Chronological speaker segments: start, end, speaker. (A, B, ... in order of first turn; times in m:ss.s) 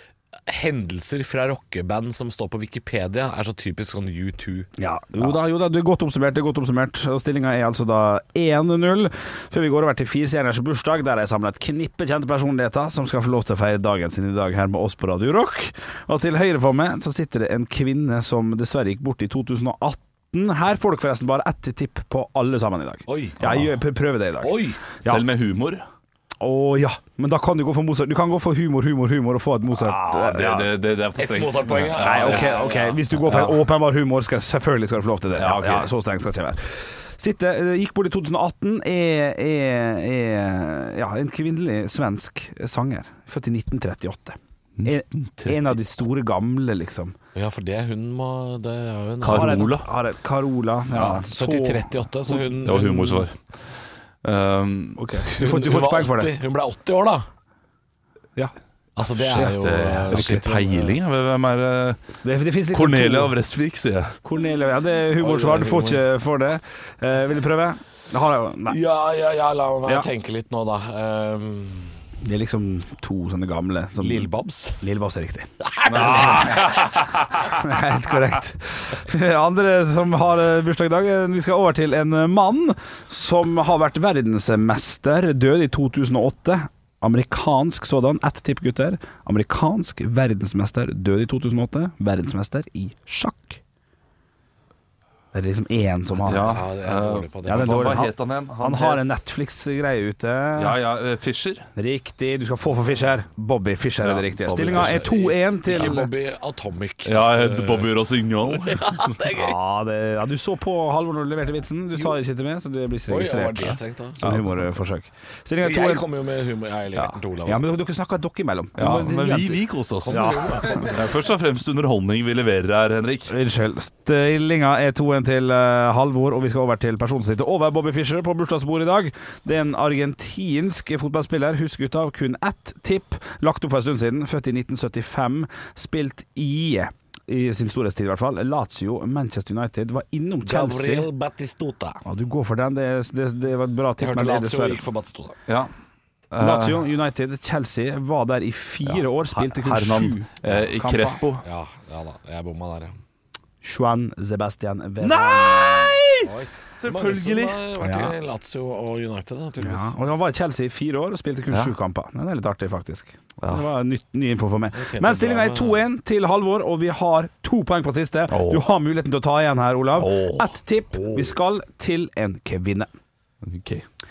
0:00.5-0:04.7 A
0:04.8-0:25.2 B
0:23.1-0:23.4 A
0:24.4-0:24.8 A
0:25.0-0:25.8 C
0:26.4-0:30.7 B
0:29.7-0:33.6 C
0:31.2-0:33.0 A
0:32.0-0:47.2 B
0:35.4-0:35.9 C
0:44.8-0:45.8 C
0:47.4-0:49.6 A
0:49.2-0:49.9 C
0:49.3-0:53.3 B
0:50.9-0:53.2 A
0:52.6-0:53.4 C
0:54.2-0:55.0 C
0:55.0-0:56.3 B
0:55.4-0:57.3 A
0:59.0-1:01.0 A
0:59.2-1:02.0 C
1:00.1-1:00.5 B
1:02.2-1:03.4 B
1:02.7-1:04.2 C
1:04.2-1:08.8 B
1:05.2-1:06.0 A
1:08.7-1:12.0 A
1:12.2-1:33.6 B
1:14.0-1:14.8 A
1:15.6-1:16.7 A
1:15.9-1:17.3 C
1:35.3-1:36.5 B
1:36.3-1:39.2 C
1:36.3-1:38.0 A
1:37.4-1:40.8 B
1:40.6-1:41.7 C
1:41.8-1:46.1 B
1:44.0-1:45.1 C
1:44.6-1:49.6 A
1:45.7-1:46.0 C
1:47.0-1:49.2 C
1:49.4-1:56.1 B
1:53.1-1:54.2 A
1:53.6-1:54.6 C
1:55.6-1:57.8 A
1:57.4-2:01.0 B
1:58.8-2:03.3 C
2:00.0-2:01.0 A
2:03.3-2:21.1 B
2:20.4-2:22.0 A
2:22.0-2:24.8 B
2:24.0-2:25.4 A
2:26.3-2:26.8 C
2:26.4-2:31.2 B
2:28.9-2:31.5 C
2:31.4-2:33.0 A
2:33.6-2:36.0 B
2:35.0-2:37.6 C
2:36.2-2:40.0 A
2:37.8-2:38.2 B
2:39.6-2:52.9 B
2:44.7-2:45.9 A
2:48.3-2:48.6 C
2:49.9-2:50.6 C
2:50.9-2:51.3 A
2:53.4-2:53.8 C